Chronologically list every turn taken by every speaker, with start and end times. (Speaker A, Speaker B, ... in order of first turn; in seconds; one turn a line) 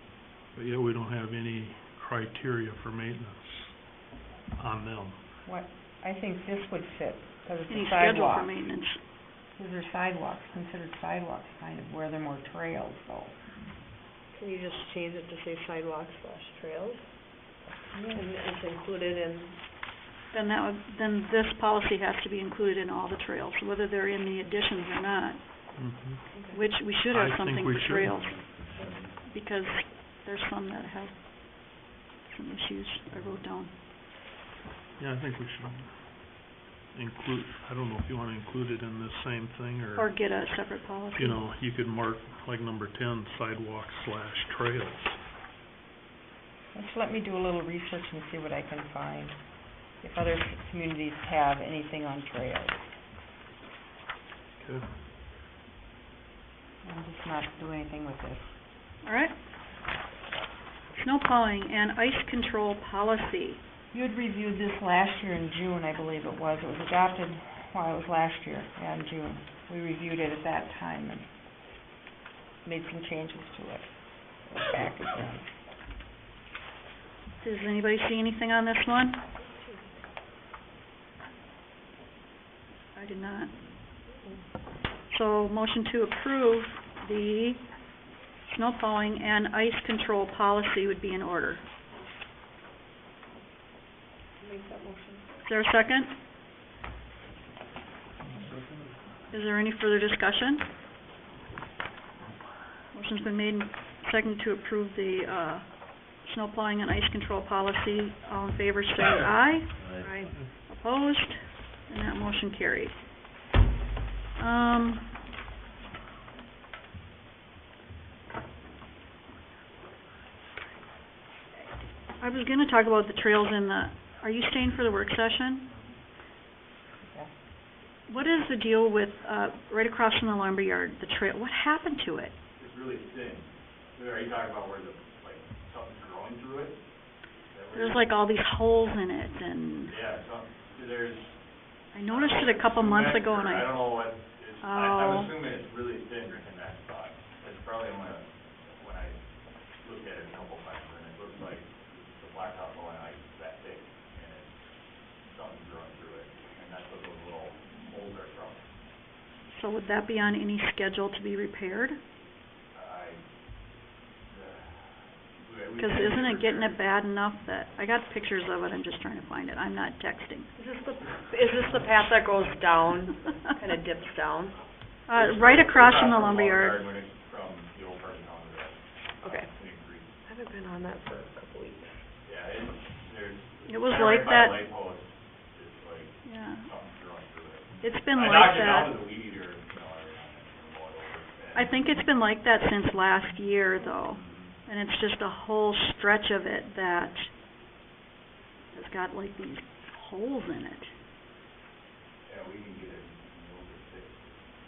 Speaker A: 0.5-5.2
Speaker B: 5.4-8.7
Speaker C: 7.7-9.0
Speaker B: 9.5-13.4
Speaker D: 14.3-17.0
Speaker B: 17.9-18.2
Speaker D: 18.1-19.6
Speaker C: 20.3-25.9
Speaker A: 25.8-26.3
Speaker D: 26.3-26.6
Speaker C: 26.5-28.7
Speaker A: 26.9-28.8
Speaker C: 29.3-33.7
Speaker A: 35.0-40.3
Speaker C: 39.9-41.4
Speaker A: 41.1-45.2
Speaker B: 46.7-52.9
Speaker A: 54.6-54.9
Speaker B: 56.8-58.5
Speaker C: 59.0-59.3
Speaker C: 60.9-63.6
Speaker B: 63.9-71.3
Speaker B: 72.6-75.5
Speaker C: 77.4-79.2
Speaker D: 79.4-79.9
Speaker C: 82.9-83.5
Speaker D: 84.1-84.4
Speaker C: 85.1-87.7
Speaker C: 88.5-91.6
Speaker D: 94.4-95.2
Speaker C: 95.5-96.1
Speaker C: 99.3-100.6
Speaker C: 102.9-109.8
Speaker D: 110.0-110.3
Speaker A: 110.1-110.5
Speaker C: 110.7-113.0
Speaker C: 114.3-115.1
Speaker C: 122.2-125.7
Speaker B: 127.0-127.3
Speaker C: 128.1-132.3
Speaker E: 132.6-136.8
Speaker E: 137.5-138.1
Speaker C: 137.7-140.0
Speaker E: 139.9-141.4
Speaker C: 141.9-144.1
Speaker E: 142.1-149.2
Speaker C: 144.6-145.3
Speaker E: 149.8-154.5
Speaker E: 155.2-158.7
Speaker C: 159.5-162.0
Speaker E: 162.7-163.2
Speaker E: 164.3-166.8
Speaker C: 165.8-170.5
Speaker D: 170.6-174.6
Speaker C: 175.1-176.9
Speaker E: 175.1-180.1
Speaker D: 179.2-179.5
Speaker D: 180.2-182.0
Speaker E: 182.2-191.7
Speaker C: 183.7-184.7
Speaker C: 186.2-186.7
Speaker C: 187.8-189.1
Speaker C: 191.5-197.3
Speaker E: 194.0-194.6
Speaker C: 198.7-200.9
Speaker E: 202.2-204.3